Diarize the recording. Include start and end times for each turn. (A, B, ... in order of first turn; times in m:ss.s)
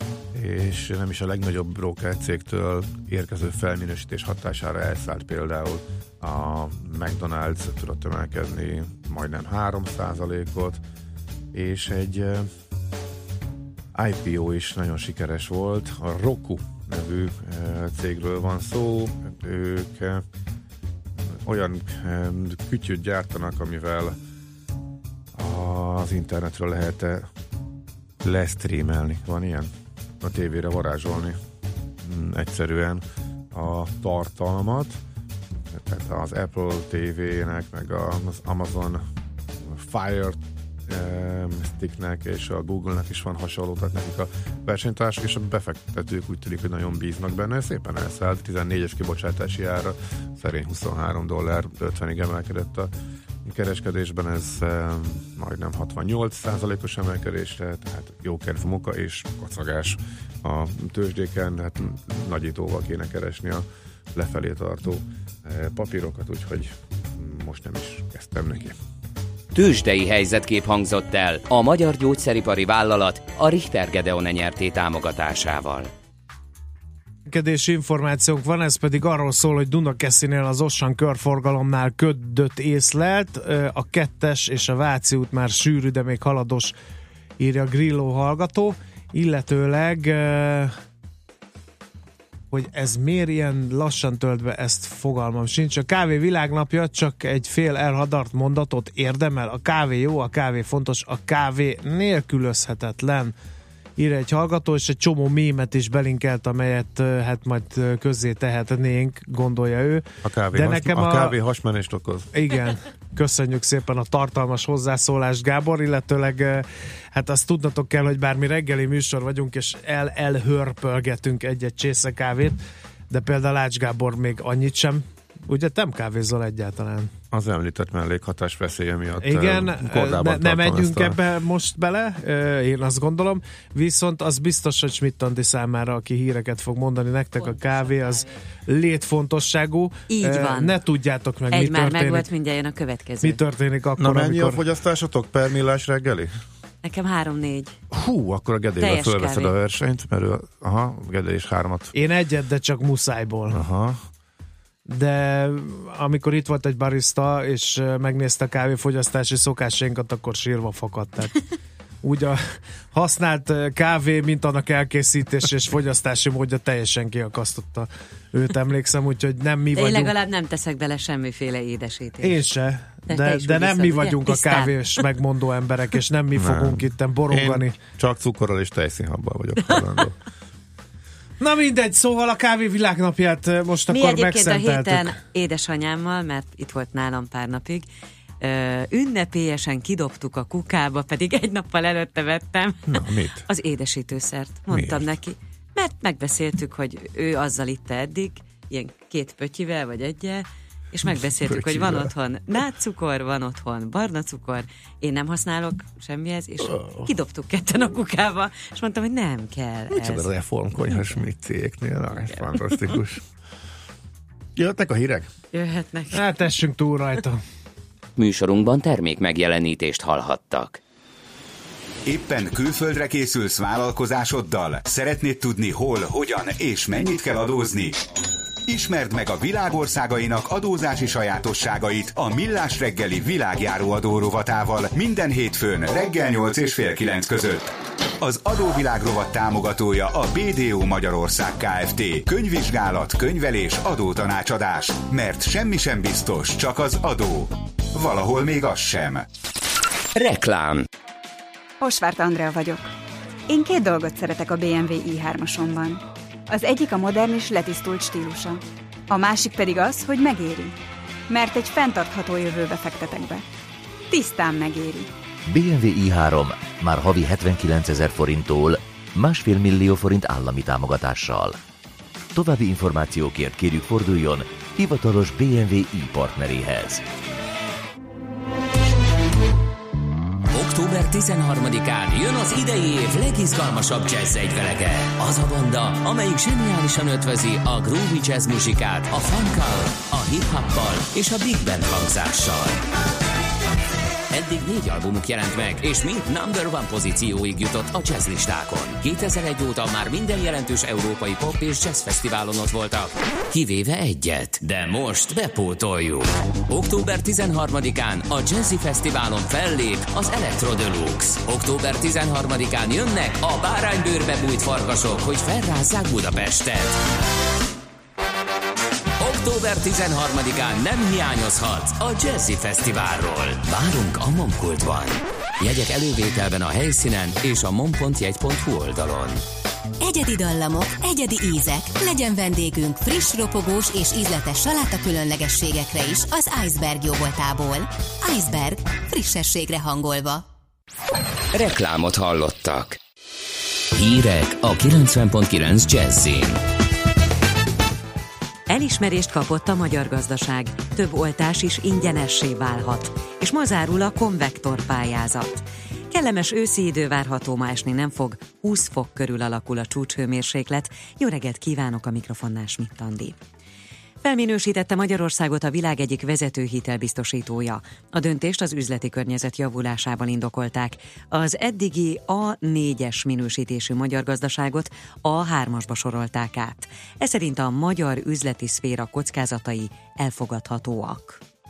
0:00.3-0:10.8 A
0:11.5-0:12.5 A
0:13.9-0:20.2 A
0:21.2-0:24.2 A
0:25.3-0:27.3 A
0:28.2-0:31.4 A
0:32.0-0:35.0 A
0:35.7-0:39.0 A
0:39.6-0:52.9 A
0:53.4-1:08.8 A
1:09.5-1:15.9 B
1:17.3-1:26.8 C
1:27.4-1:30.7 C
1:32.5-1:43.3 C
1:44.0-1:51.3 C
1:50.2-1:52.3 A
1:52.3-2:02.6 C
2:03.1-2:07.1 C
2:07.3-2:11.2 A
2:09.2-2:22.2 C
2:20.1-2:20.8 D
2:21.5-2:23.4 D
2:23.2-2:24.6 C
2:24.0-2:26.3 A
2:26.8-2:27.8 D
2:27.9-2:31.9 A
2:28.8-2:29.5 D
2:31.9-2:33.6 C
2:33.5-2:34.0 A
2:34.9-2:41.4 C
2:42.0-2:50.1 C
2:49.7-2:52.4 D
2:52.2-2:57.7 C
2:53.1-2:55.1 D
2:56.4-3:00.2 A
3:01.4-3:05.2 C
3:03.9-3:07.8 D
3:08.4-3:30.3 D
3:12.9-3:13.5 A
3:14.7-3:15.1 A
3:21.0-3:22.1 A
3:26.6-3:27.1 A
3:29.9-3:33.2 A
3:34.6-3:35.3 A
3:35.5-3:36.3 D
3:36.1-3:37.4 C
3:38.2-3:40.8 B
3:42.0-3:48.0 E
3:48.7-4:09.2 E
4:10.1-4:10.8 B
4:11.8-4:12.9 F
4:13.5-4:20.8 F
4:21.3-4:23.5 F
4:24.1-4:25.1 F
4:25.5-4:31.6 G
4:32.3-4:37.0 G
4:40.5-4:52.8 B
4:54.3-5:17.0 B
5:19.2-5:29.4 B
5:30.0-5:40.4 H
5:41.5-5:43.0 B
5:43.9-5:46.6 B
5:48.7-6:03.4 D
6:04.2-6:21.4 D